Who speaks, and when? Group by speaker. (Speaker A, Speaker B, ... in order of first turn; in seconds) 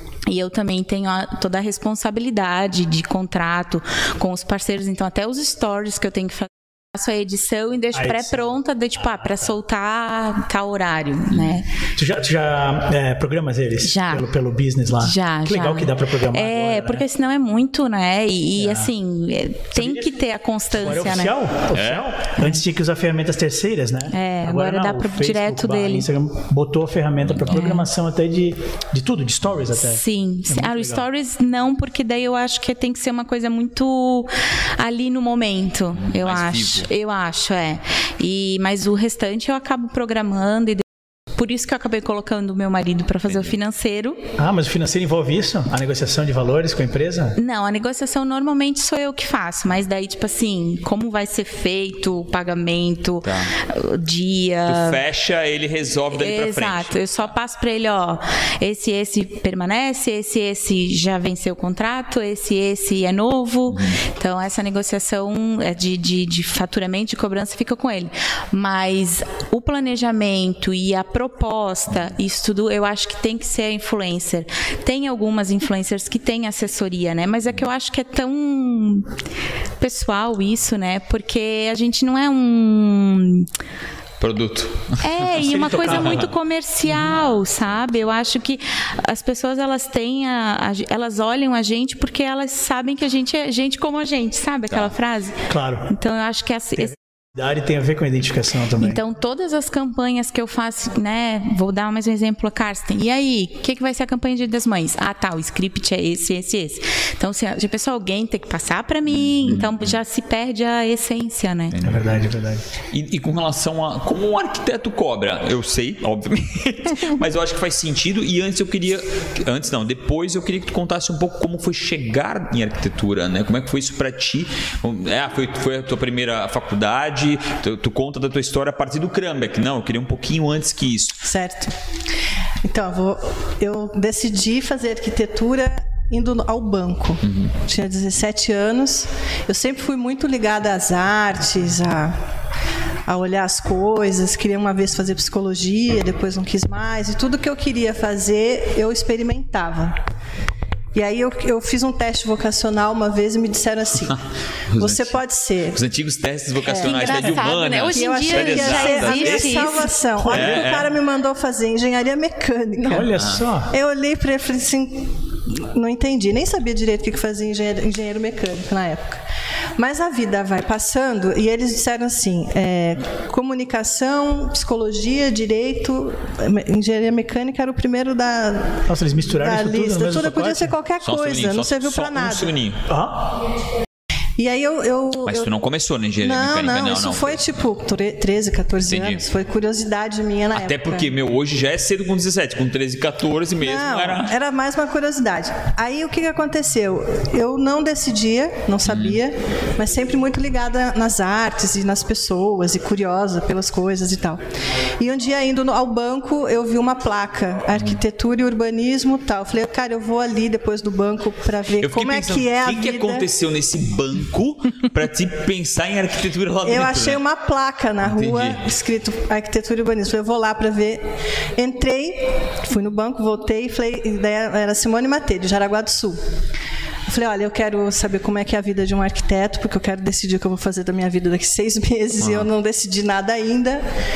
Speaker A: 0.3-11.7, 13.8-14.2, 15.0-21.3, 24.1-26.1, 27.5-27.9, 29.8-44.2, 47.4-55.0, 56.1-79.1, 79.8-83.5, 85.0-96.9, 98.8-111.8, 156.7-159.9
Speaker B: 7.9-8.5, 9.1-9.5, 11.9-17.0, 18.6-18.9, 19.8-20.2, 20.7-31.1, 44.4-47.4, 85.4-86.3, 95.5-95.9, 96.8-99.0, 111.8-112.6, 160.2-160.7, 162.8-163.8, 178.9-180.7, 182.9-183.3
Speaker C: 11.3-11.6, 21.7-22.1, 27.2-27.6, 36.0-36.9, 43.3-43.6, 53.2-53.5, 54.6-57.1, 63.7-64.0, 84.2-86.3, 86.9-87.8, 109.1-110.0, 111.7-112.2, 112.9-131.2, 137.2-137.5, 154.7-155.2, 155.8-160.9, 163.2-163.4, 181.0-182.8, 185.2-187.6, 188.9-189.2, 190.5-194.3, 198.8-199.2, 207.7-208.0, 211.8-217.2, 218.0-218.6, 232.2-232.5
Speaker D: 131.2-131.8, 132.6-142.2, 143.1-150.0, 150.9-154.2, 154.8-155.8, 156.7-157.3, 157.9-163.1, 163.7-169.2, 169.8-182.6, 184.4-185.5, 186.2-191.1, 193.6-204.4, 205.0-213.2, 216.6-221.1, 221.6-226.2, 227.1-233.8